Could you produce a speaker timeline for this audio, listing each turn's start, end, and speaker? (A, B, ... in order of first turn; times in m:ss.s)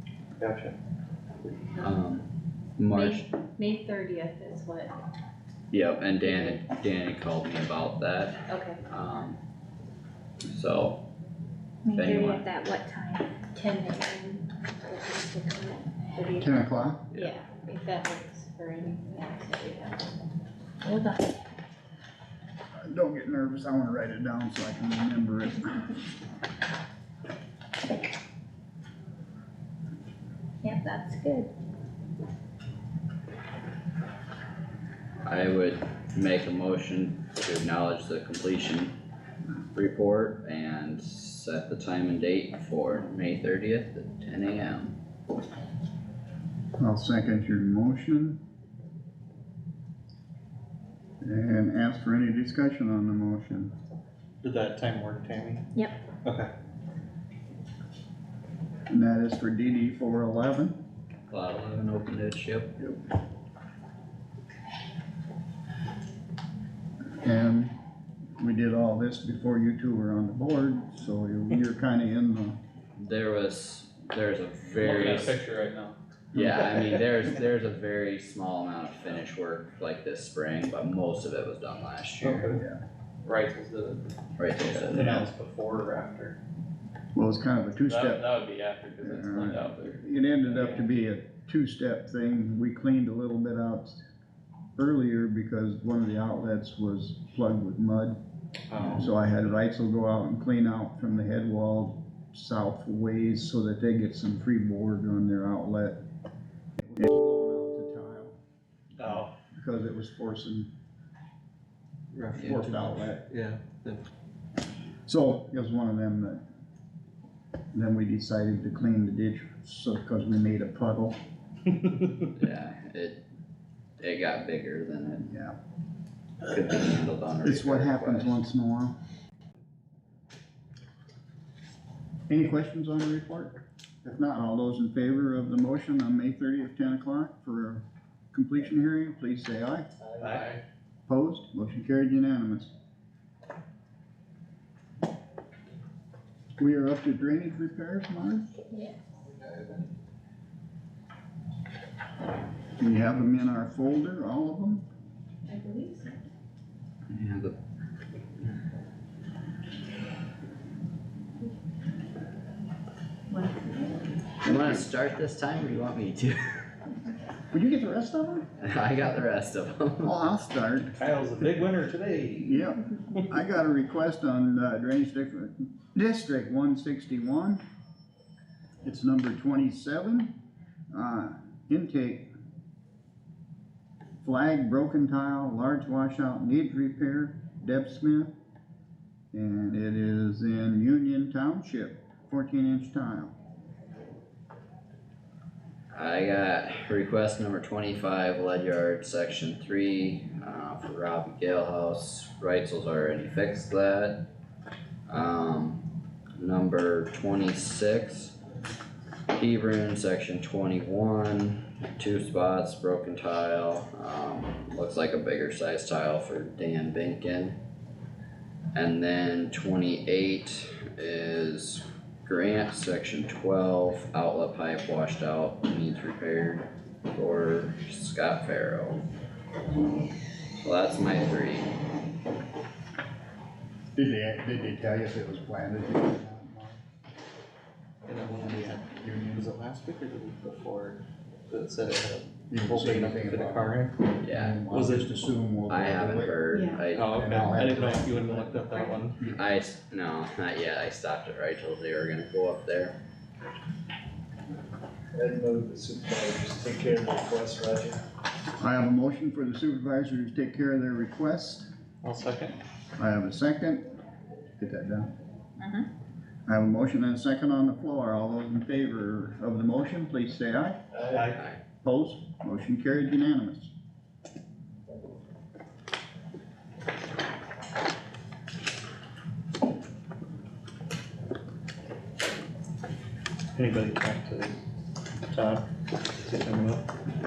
0:00.4-0:00.8 A
0:01.8-0:02.2 B
0:02.8-0:03.2 B
0:02.9-0:04.9 C
0:05.7-0:09.4 B
0:08.5-0:08.8 C
0:10.5-0:11.0 B
0:11.8-0:13.4 D
0:11.9-0:12.4 B
0:13.5-0:16.5 C
0:16.4-0:17.1 E
0:17.1-0:20.0 C
0:20.8-0:21.3 D
0:22.8-0:25.9 E
0:30.6-0:31.5 D
0:35.2-0:38.9 B
0:39.7-0:45.0 B
0:46.8-0:48.4 E
0:51.2-0:53.7 E
0:54.4-0:55.7 A
0:56.2-0:56.5 A
0:58.9-1:00.8 E
1:01.3-1:02.8 B
1:07.2-1:07.7 E
1:08.4-1:12.6 E
1:13.0-1:15.4 B
1:14.8-1:15.9 A
1:16.3-1:22.5 B
1:22.2-1:22.6 A
1:22.5-1:22.8 E
1:23.2-1:24.1 A
1:24.4-1:25.3 B
1:24.6-1:26.4 A
1:27.1-1:28.3 E
1:28.0-1:29.7 A
1:29.0-1:34.0 E
1:34.8-1:38.2 E
1:38.7-1:39.1 A
1:38.8-1:46.0 E
1:46.8-1:48.3 E
1:49.0-1:49.3 A
1:49.0-1:50.7 E
1:52.1-1:54.1 A
1:52.3-1:53.2 E
1:55.0-1:56.4 E
1:57.7-2:01.2 E
2:02.4-2:03.2 B
2:04.0-2:05.3 B
2:05.2-2:05.6 E
2:06.5-2:08.4 B
2:07.4-2:08.9 E
2:12.3-2:19.9 E
2:20.2-2:20.6 A
2:21.1-2:22.7 E
2:26.6-2:28.5 E
2:29.4-2:29.8 A
2:32.8-2:34.8 E
2:35.5-2:36.2 C
2:37.1-2:37.6 B
2:43.3-2:43.9 C
2:44.4-2:46.4 B
2:44.4-2:44.8 E
2:47.5-2:48.5 E
2:48.6-2:50.1 B
2:50.0-2:50.9 E
2:51.0-2:52.6 A
2:52.4-2:57.6 E
2:58.8-3:00.3 E
3:00.9-3:02.3 E
3:04.2-3:08.3 E
3:09.3-3:13.3 E
3:15.9-3:24.2 B
3:25.1-3:25.8 B
3:26.4-3:28.3 B
3:29.3-3:37.6 B
3:38.7-3:49.0 B
3:50.6-3:51.7 B
3:54.0-3:56.8 E
3:58.0-4:04.1 A
3:59.0-3:59.5 E
4:02.5-4:06.4 E
4:04.2-4:04.6 B
4:04.7-4:05.1 A
4:05.7-4:07.4 B
4:06.5-4:06.8 C
4:06.9-4:08.6 E
4:06.9-4:09.2 A
4:08.7-4:09.0 C
4:09.2-4:13.0 B
4:15.1-4:18.0 F
4:18.6-4:21.7 E
4:22.0-4:22.6 A
4:23.0-4:23.9 E
4:24.6-4:25.1 E
4:25.6-4:25.9 D
4:26.4-4:30.8 E
4:31.1-4:31.4 A
4:31.8-4:33.7 E
4:43.5-4:44.6 A
4:45.3-4:45.6 A
4:46.2-4:46.8 A